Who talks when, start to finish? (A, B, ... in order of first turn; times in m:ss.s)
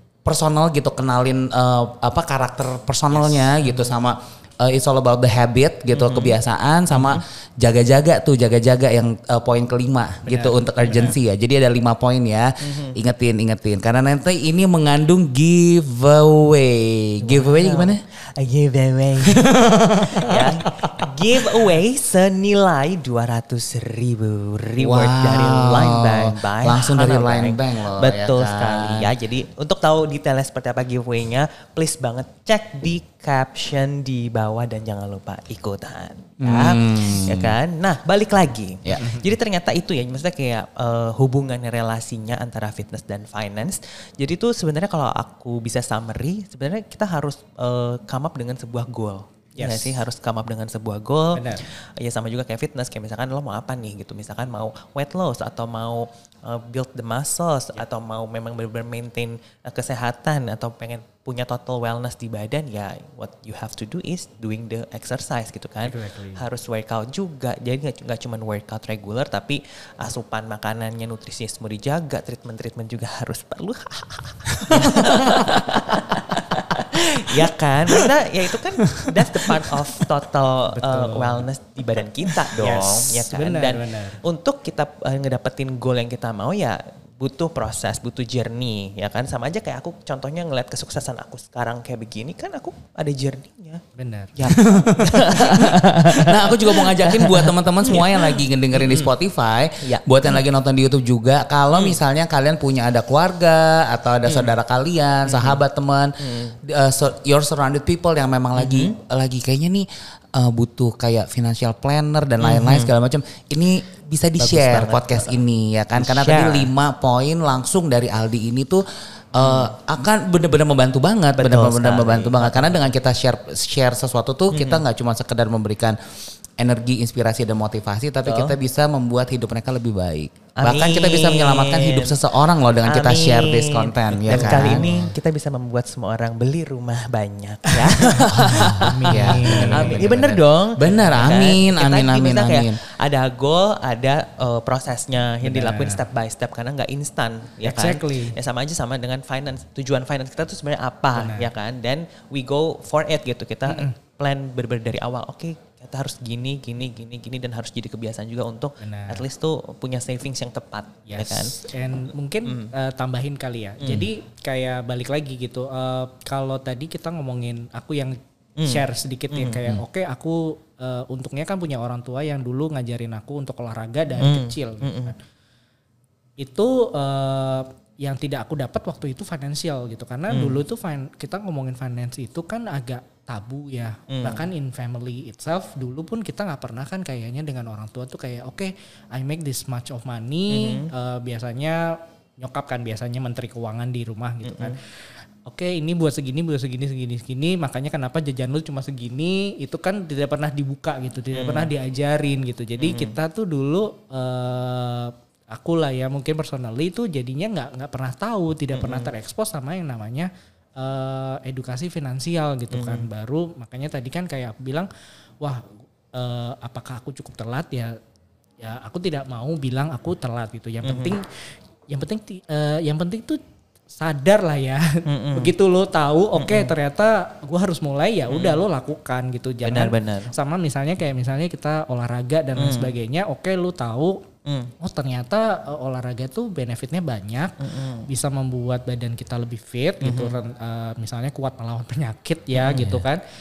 0:00.2-0:18.0 A
0:03.1-0:03.6 B
0:05.9-0:06.4 B
0:06.9-0:07.2 B
0:10.2-0:11.2 C
0:12.6-0:13.0 B
0:17.2-1:33.8 B
0:19.3-0:20.5 A
0:24.8-0:29.1 A
0:36.4-0:37.6 A
0:38.9-0:39.3 C
0:49.6-0:50.0 C
0:51.3-0:51.6 C
1:05.8-1:06.4 C
1:20.7-1:21.5 C
1:22.6-1:24.2 C
1:34.0-1:34.3 C
1:34.4-1:39.1 B
1:34.5-2:06.0 A
1:39.8-1:40.4 B
1:41.7-1:42.0 B
1:44.2-1:44.6 B
1:45.2-1:45.6 B
1:46.2-1:46.6 B
1:48.5-1:49.0 B
1:52.4-1:53.0 B
1:54.4-1:55.4 B
1:55.9-1:56.7 B
1:59.4-1:59.7 B
2:01.4-2:02.8 B
2:04.5-2:04.8 B
2:06.6-2:15.1 A
2:08.2-2:08.6 B
2:10.6-2:41.6 B
2:14.3-2:14.9 C
2:18.4-2:22.8 A
2:18.6-2:20.2 C
2:25.4-2:26.0 C
2:27.6-2:28.4 C
2:31.1-2:31.5 C
2:33.7-2:34.0 C
2:38.8-2:39.2 C
2:41.1-2:55.2 C
2:42.5-2:42.7 B
2:43.8-2:44.1 B
2:48.6-2:49.8 B
2:54.2-2:55.1 B
2:56.4-3:14.8 C
3:00.3-3:00.6 B
3:04.1-3:04.4 B
3:10.5-3:10.9 B
3:14.4-3:14.8 B
3:15.5-3:34.9 C
3:21.3-3:21.7 B
3:22.8-3:23.2 B
3:28.7-3:29.1 B
3:32.7-3:33.1 B
3:35.4-3:38.0 C
3:38.6-3:43.4 C
3:40.8-3:41.2 B
3:43.9-3:54.2 C
3:45.1-3:45.5 B
3:46.4-3:46.7 B
3:48.3-3:48.6 B
3:49.6-3:50.3 B
3:52.6-3:52.9 B
3:54.8-4:03.2 C
3:57.6-3:58.1 B
4:00.0-4:00.4 B
4:02.6-4:03.0 A